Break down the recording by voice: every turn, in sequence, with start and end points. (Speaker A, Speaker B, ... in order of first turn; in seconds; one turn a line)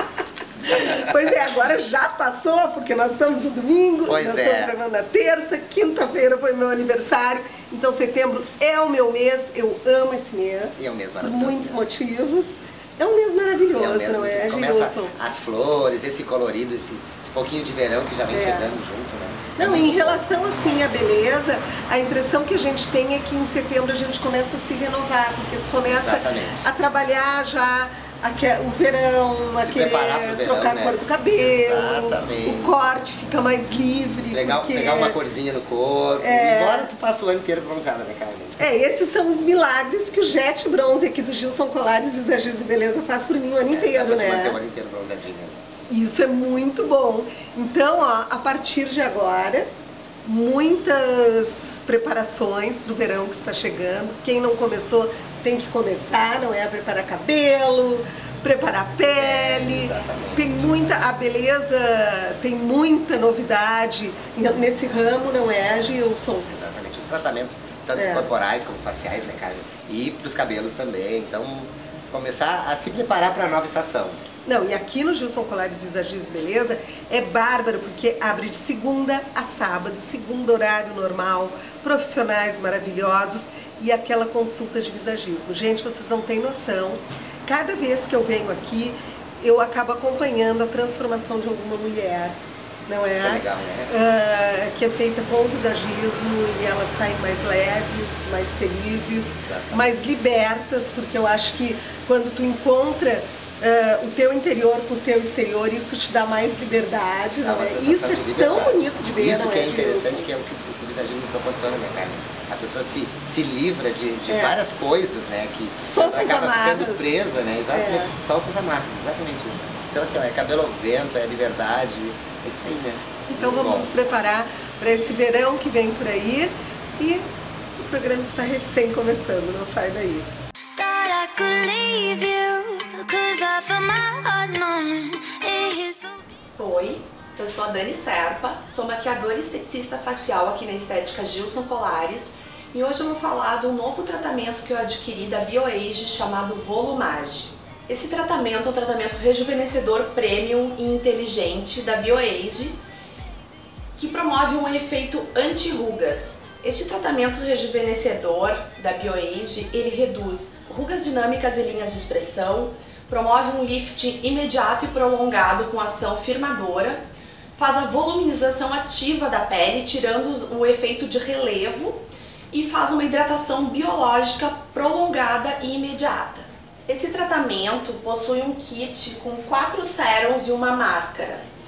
Speaker A: 0.7-15.1
Speaker B: 4.1-4.7
Speaker B: 10.8-11.9
Speaker B: 13.8-20.2
Speaker A: 18.3-18.8
Speaker A: 19.6-35.2
Speaker B: 25.9-26.7
Speaker B: 29.6-32.8
Speaker B: 34.3-38.6
Speaker A: 36.2-36.9
Speaker A: 38.6-44.6
Speaker B: 43.7-45.6
Speaker A: 45.9-49.7
Speaker A: 50.2-66.5
Speaker B: 59.1-61.1
Speaker B: 66.5-74.2
Speaker A: 68.0-68.3
Speaker A: 74.5-92.4
Speaker A: 92.9-110.3
Speaker B: 93.1-93.9
Speaker B: 99.4-99.9
Speaker B: 107.4-123.9
Speaker A: 114.3-114.6
Speaker A: 115.8-117.1
Speaker A: 117.7-118.1
Speaker A: 123.3-127.2
Speaker A: 127.8-130.3
Speaker C: 130.8-136.3
Speaker D: 136.6-152.8
Speaker D: 154.0-167.0
Speaker D: 167.6-181.5